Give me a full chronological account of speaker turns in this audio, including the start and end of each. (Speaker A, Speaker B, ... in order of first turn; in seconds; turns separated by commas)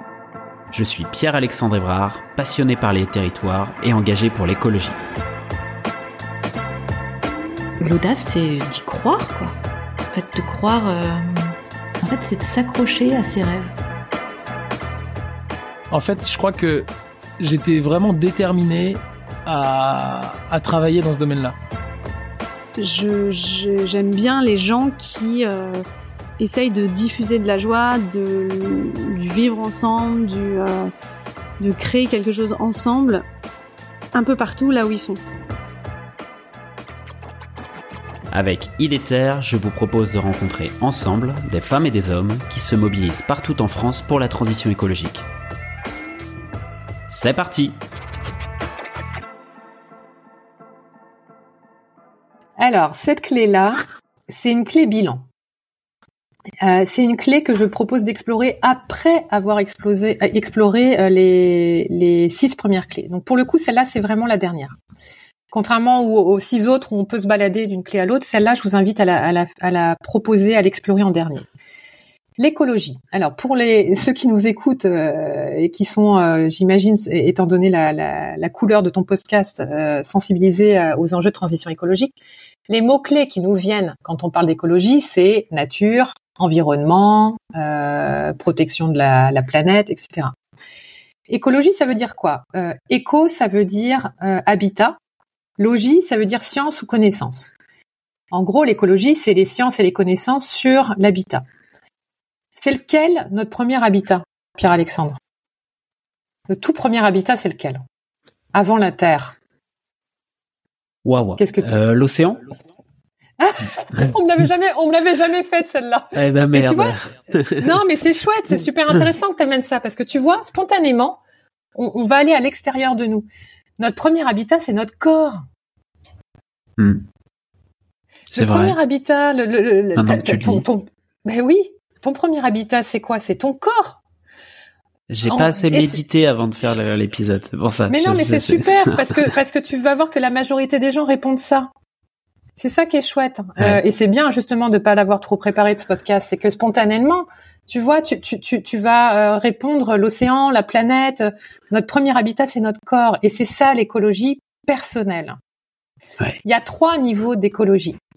Speaker A: 0.7-5.0, Speaker B: 7.8-9.5, Speaker B: 10.1-13.7, Speaker C: 15.9-21.6, Speaker D: 22.8-25.8, Speaker D: 26.4-30.9, Speaker D: 31.6-33.2, Speaker D: 34.1-35.2, Speaker A: 38.3-45.2, Speaker A: 47.1-47.8, Speaker E: 52.6-55.2, Speaker E: 56.6-64.8, Speaker E: 65.5-71.5, Speaker E: 72.4-82.2, Speaker E: 82.7-90.3, Speaker E: 91.3-95.0, Speaker E: 95.6-97.5, Speaker E: 98.3-101.4, Speaker E: 102.6-105.2, Speaker E: 106.5-107.8, Speaker E: 108.5-109.4, Speaker A: 111.0-112.4, Speaker E: 111.4-111.7, Speaker E: 113.4-121.2, Speaker A: 116.1-117.6, Speaker E: 121.8-123.3, Speaker E: 123.8-125.4, Speaker A: 126.8-127.0, Speaker A: 128.3-128.8, Speaker E: 128.3-134.0, Speaker A: 129.9-130.7, Speaker A: 135.1-139.1, Speaker E: 135.2-136.0, Speaker E: 137.9-141.7, Speaker E: 142.6-155.3, Speaker E: 156.4-158.0